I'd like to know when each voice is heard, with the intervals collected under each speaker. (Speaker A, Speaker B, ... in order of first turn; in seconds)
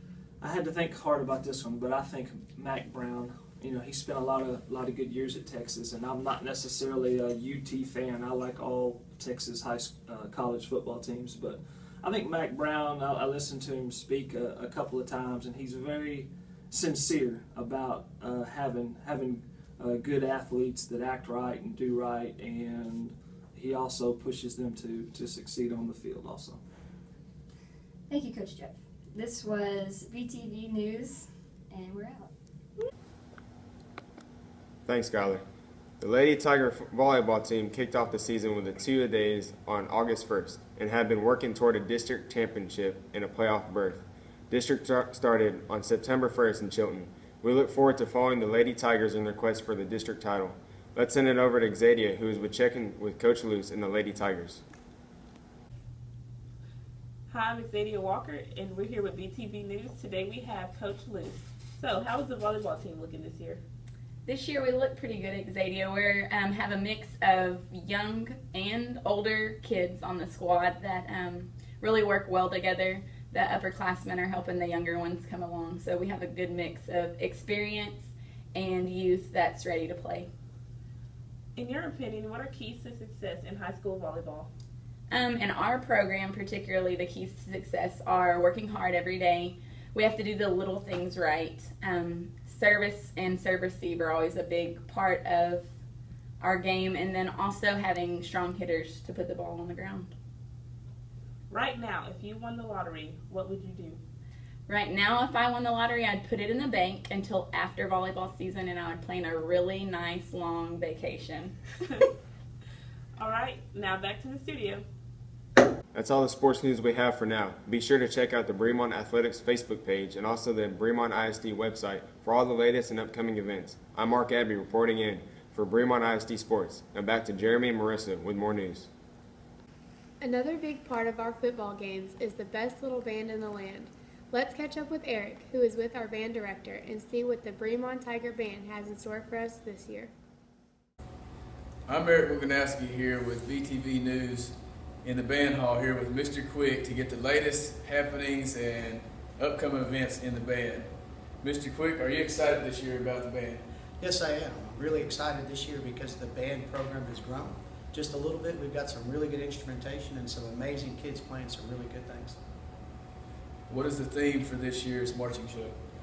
Speaker A: 0.4-26.6
Speaker B: 28.1-32.3
Speaker C: 34.9-35.4, 36.0-54.6, 115.9-128.9
Speaker D: 57.3-63.6, 81.5-84.5, 101.5-104.0, 113.2-114.8
Speaker E: 64.2-80.3, 85.1-95.7, 96.4-100.1, 104.7-111.6
Speaker F: 130.2-140.1
Speaker G: 141.8-153.6, 163.7-165.8
Speaker H: 154.0-162.4